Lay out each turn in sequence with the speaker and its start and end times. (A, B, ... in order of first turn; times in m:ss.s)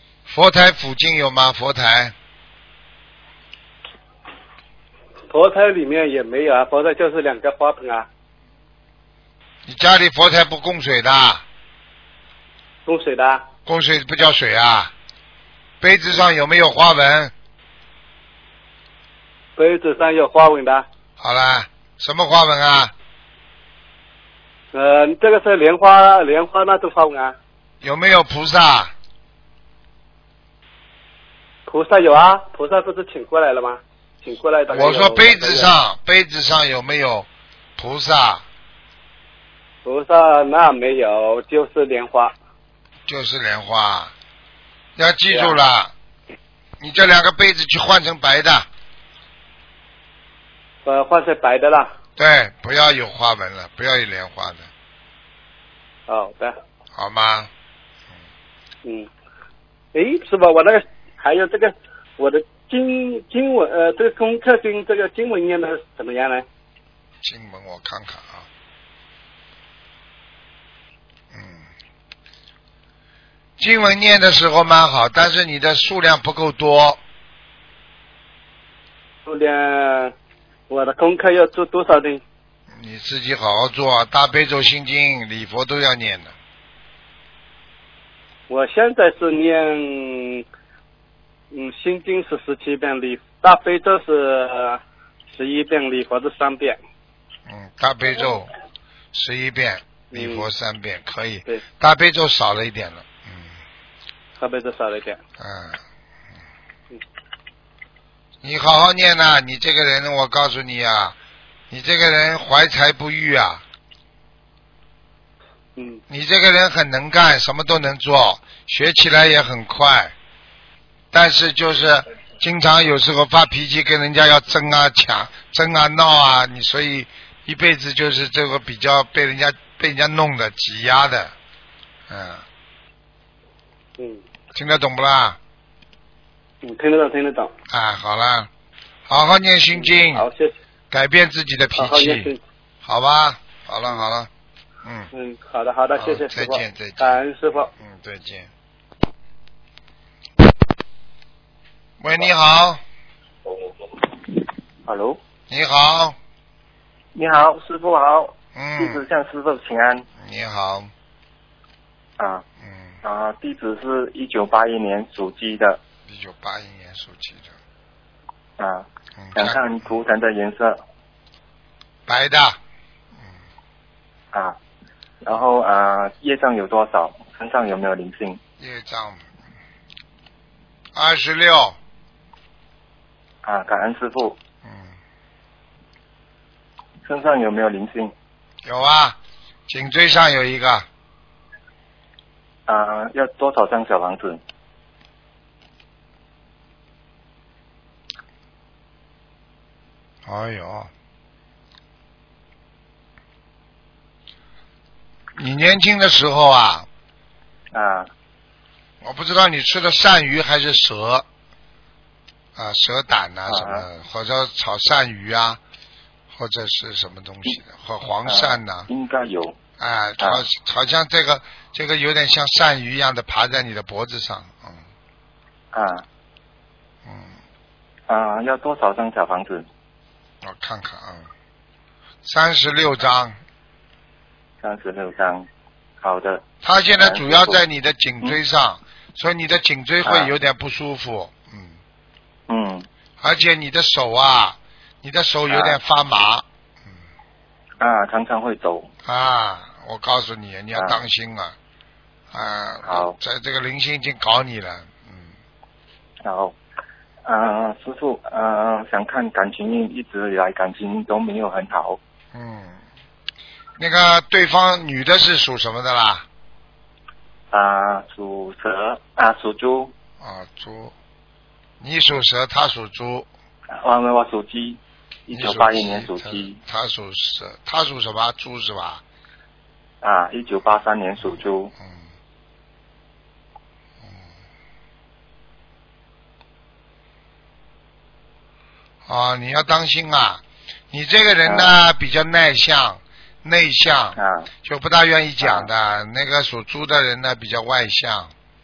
0:00.3-0:02.2 A
0:05.3-0:08.1 B
0:09.7-0:11.4 A
0:12.9-0:13.4 B
0:13.7-0:14.9 A
0:15.8-0:17.3 A
0:19.6-0:20.8 B
0:21.2-0:22.9 A
0:24.7-0:27.4 B
0:27.8-0:28.9 A
0:31.7-0:35.7 B
0:34.7-0:38.4 A
0:39.8-0:42.3 B
0:43.1-0:44.1 A
0:45.0-0:45.9 A
0:45.3-0:45.6 B
0:46.8-0:48.7 A
0:50.8-0:51.9 B
0:52.2-0:54.7 A
0:56.1-0:56.6 B
0:57.0-0:57.5 A
0:59.9-1:06.4 B
1:07.2-1:08.5 A
1:11.3-1:11.7 A
1:13.6-1:17.0 A
1:19.2-1:20.1 B
1:20.7-1:22.2 B
1:22.7-1:26.3 A
1:28.5-1:30.4 B
1:31.5-1:34.8 B
1:35.3-1:36.8 B
1:37.5-1:38.5 A
1:39.1-1:43.5 A
1:40.1-1:40.5 B
1:44.4-1:45.2 B
1:45.4-1:45.8 A
1:48.4-1:51.2 A
1:51.7-1:53.6 A
1:55.8-1:56.0 B
1:56.1-2:00.1 A
2:01.1-2:11.3 A
2:12.1-2:12.4 A
2:14.5-2:15.4 A
2:16.6-2:17.5 B
2:17.7-2:18.5 A
2:19.1-2:20.3 A
2:19.8-2:20.5 B
2:20.9-2:22.3 A
2:21.8-2:22.4 B
2:22.8-2:24.3 A
2:24.8-2:25.1 A
2:25.1-2:27.7 B
2:26.0-2:28.5 A
2:32.0-2:32.8 A
2:34.8-2:35.2 C
2:35.5-2:36.2 A
2:37.2-2:40.0 C
2:38.6-2:39.0 A
2:40.2-2:40.9 A
2:42.2-2:42.4 C
2:42.6-2:43.0 A
2:43.0-2:45.8 C
2:46.0-2:47.6 A
2:48.6-2:50.8 C
2:49.2-2:50.0 A
2:52.1-2:52.6 A
2:55.2-2:58.4 C
2:58.6-2:59.3 A
3:00.9-3:01.8 A
3:03.4-3:04.4 C
3:04.6-3:04.9 A
3:07.0-3:08.1 C
3:08.6-3:10.9 A
3:12.7-3:14.4 C
3:20.3-3:20.9 A
3:25.4-3:26.9 A
3:27.7-3:28.1 C
3:29.0-3:31.3 A
3:32.6-3:35.6 A
3:33.5-3:33.9 C
3:36.3-3:38.9 A
3:38.3-3:39.6 C
3:39.8-3:44.8 A
3:40.2-3:40.4 C
3:45.7-3:46.0 C
3:47.0-3:47.4 A
3:48.1-3:49.7 C
3:50.4-3:51.3 A
3:52.2-3:53.4 A
3:54.6-3:55.5 C
3:56.0-3:57.6 C
3:56.6-4:01.8 A
4:00.1-4:00.3 C
4:02.5-4:02.9 C
4:03.2-4:06.4 A
4:05.5-4:05.8 C
4:07.8-4:08.9 C
4:09.0-4:11.6 A
4:10.8-4:11.0 C
4:12.3-4:15.3 A
4:12.8-4:13.2 C
4:16.2-4:16.6 C
4:17.2-4:22.0 C
4:22.3-4:22.8 A
4:23.8-4:26.3 A
4:27.5-4:29.9 C
4:30.2-4:31.0 A
4:31.8-4:33.3 A
4:33.8-4:36.6 C
4:35.3-4:39.0 A
4:40.0-4:41.7 C
4:41.3-4:42.1 A
4:49.1-4:58.3 A
4:51.5-4:51.8 C
4:54.2-4:54.5 C
4:55.4-4:55.7 C